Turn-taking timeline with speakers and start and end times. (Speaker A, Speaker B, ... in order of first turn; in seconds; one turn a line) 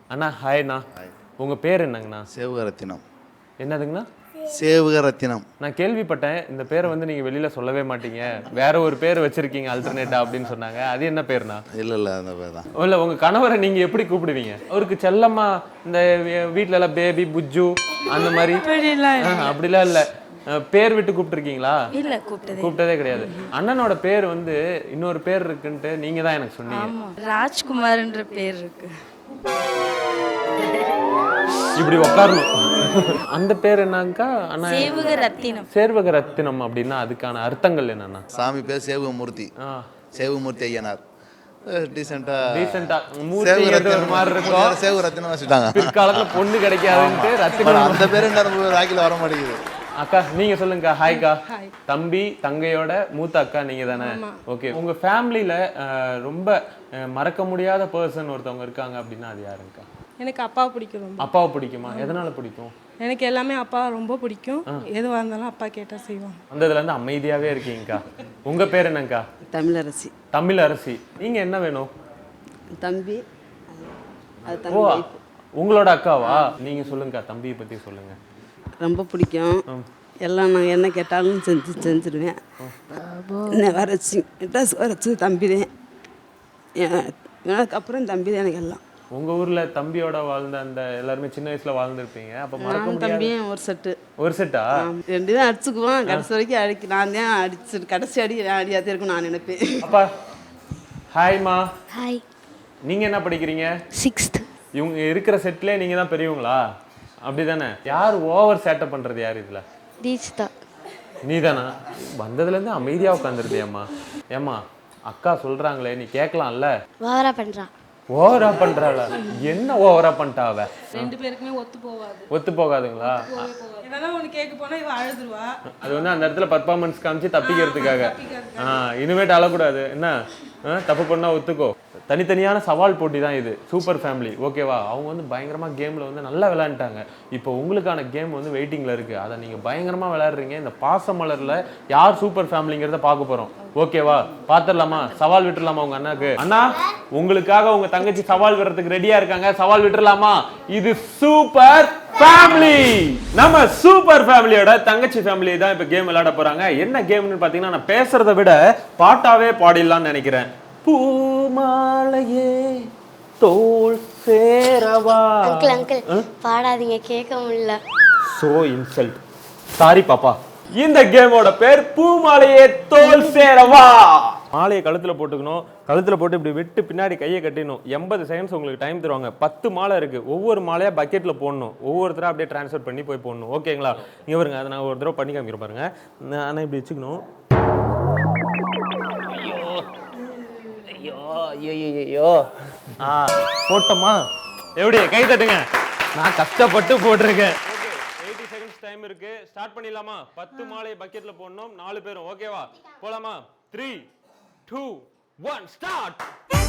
Speaker A: 0.1-0.9
Speaker A: 1.4-2.2
Speaker B: 2.3-3.0
Speaker A: 3.6-4.1
Speaker B: 4.5-5.4
Speaker A: 5.6-11.6
Speaker B: 11.7-12.7
Speaker A: 12.8-18.6
Speaker C: 18.6-19.6
Speaker A: 19.2-21.8
Speaker C: 21.9-23.5
Speaker A: 22.6-26.9
Speaker C: 26.7-28.9
Speaker A: 31.8-35.2
Speaker C: 34.6-35.7
Speaker A: 35.7-38.2
Speaker B: 38.3-39.5
Speaker B: 40.1-41.0
Speaker B: 41.7-46.3
Speaker A: 42.5-44.8
Speaker A: 45.7-48.2
Speaker B: 46.9-49.6
Speaker A: 50.0-59.9
Speaker D: 51.1-51.7
Speaker D: 53.9-54.4
Speaker D: 60.2-61.3
Speaker A: 61.2-62.7
Speaker D: 61.9-62.1
Speaker D: 63.0-66.4
Speaker A: 66.5-69.2
Speaker E: 69.5-70.1
Speaker A: 70.3-71.9
Speaker E: 72.8-73.9
Speaker E: 74.5-75.2
Speaker A: 74.7-75.0
Speaker A: 75.6-78.2
Speaker E: 78.8-79.6
Speaker E: 80.2-82.4
Speaker F: 83.0-83.8
Speaker E: 83.5-85.7
Speaker E: 86.8-88.8
Speaker A: 89.1-93.3
Speaker E: 92.6-94.0
Speaker A: 94.2-94.8
Speaker E: 94.8-99.8
Speaker A: 99.8-100.1
Speaker A: 101.1-101.7
Speaker F: 101.9-102.2
Speaker A: 102.9-103.7
Speaker F: 103.9-104.5
Speaker A: 104.8-106.6
Speaker A: 107.2-109.6
Speaker F: 110.0-110.5
Speaker A: 111.2-116.7
Speaker F: 117.0-117.7
Speaker A: 118.1-121.1
Speaker D: 121.0-122.2
Speaker A: 122.3-123.2
Speaker D: 123.0-125.5
Speaker A: 125.8-130.1
Speaker D: 127.5-128.8
Speaker A: 130.6-162.9
Speaker A: 163.4-166.2
Speaker F: 165.4-167.8
Speaker A: 168.3-169.2
Speaker A: 169.8-187.2
Speaker A: 193.0-194.2
Speaker A: 194.8-195.6
Speaker A: 196.1-204.1
Speaker A: 204.7-206.2